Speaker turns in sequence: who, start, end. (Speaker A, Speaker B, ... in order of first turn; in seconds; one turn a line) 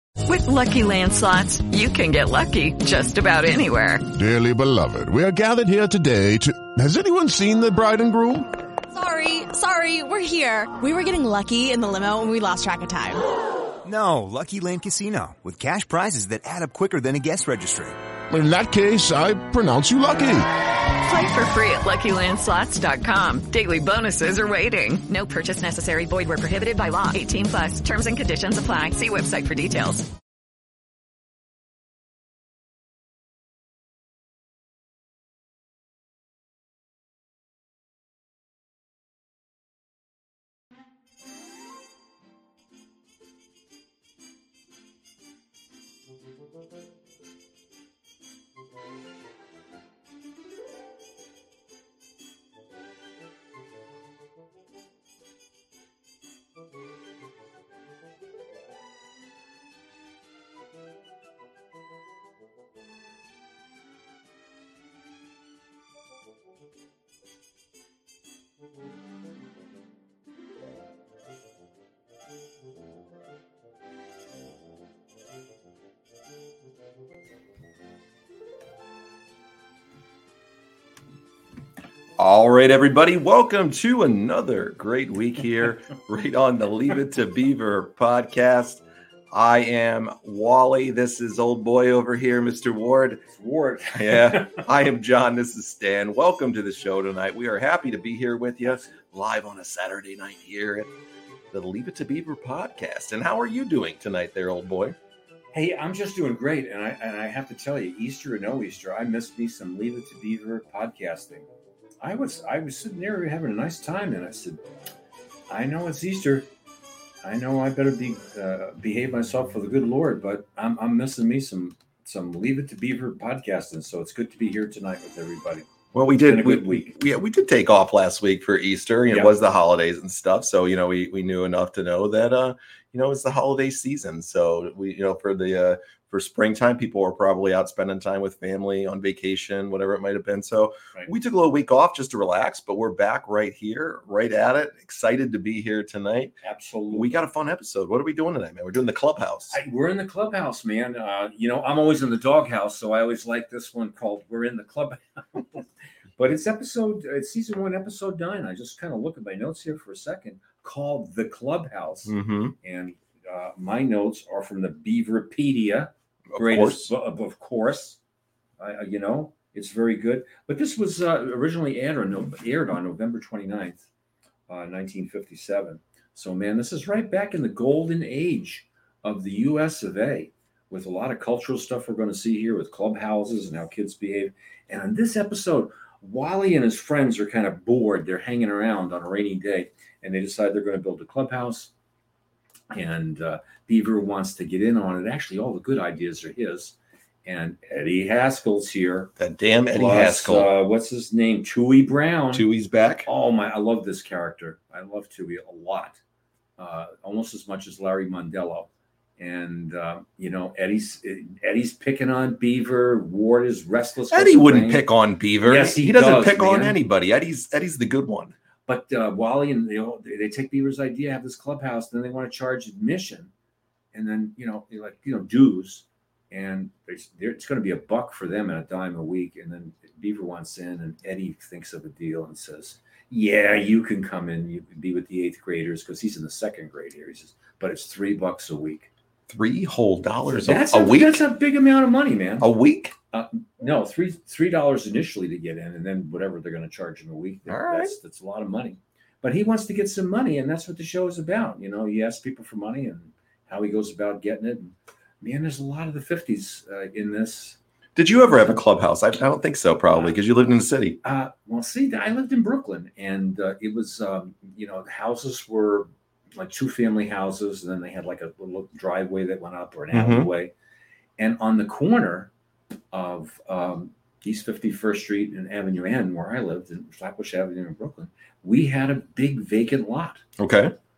Speaker A: 0.2-4.0
Speaker B: 4.1-8.5
Speaker C: 8.9-13.2
Speaker D: 13.8-18.0
Speaker B: 18.3-20.5
Speaker A: 21.0-30.1
Speaker E: 82.2-93.2
Speaker F: 93.3-94.6
Speaker E: 93.9-100.9
Speaker E: 101.5-105.0
Speaker F: 105.5-111.5
Speaker F: 112.0-114.6
Speaker F: 115.5-116.5
Speaker F: 117.2-125.7
Speaker E: 125.9-146.3
Speaker F: 126.2-126.9
Speaker F: 129.1-129.4
Speaker F: 146.4-147.1
Speaker E: 146.9-149.6
Speaker F: 149.5-155.6
Speaker F: 156.2-168.0
Speaker E: 162.1-162.6
Speaker E: 166.3-166.9
Speaker F: 168.6-173.8
Speaker F: 174.5-191.7
Speaker F: 192.7-199.1
Speaker E: 199.2-200.5
Speaker F: 199.7-202.5
Speaker E: 202.3-203.1
Speaker F: 203.1-206.0
Speaker F: 206.6-214.9
Speaker E: 214.1-218.3
Speaker F: 215.4-216.8
Speaker F: 218.7-223.3
Speaker F: 223.9-238.9
Speaker E: 239.3-241.2
Speaker F: 240.3-242.5
Speaker E: 242.4-242.9
Speaker F: 243.1-257.6
Speaker E: 247.5-247.9
Speaker E: 258.0-261.0
Speaker F: 261.0-270.5
Speaker E: 269.9-270.3
Speaker F: 271.2-272.3
Speaker F: 272.9-280.2
Speaker E: 280.4-280.8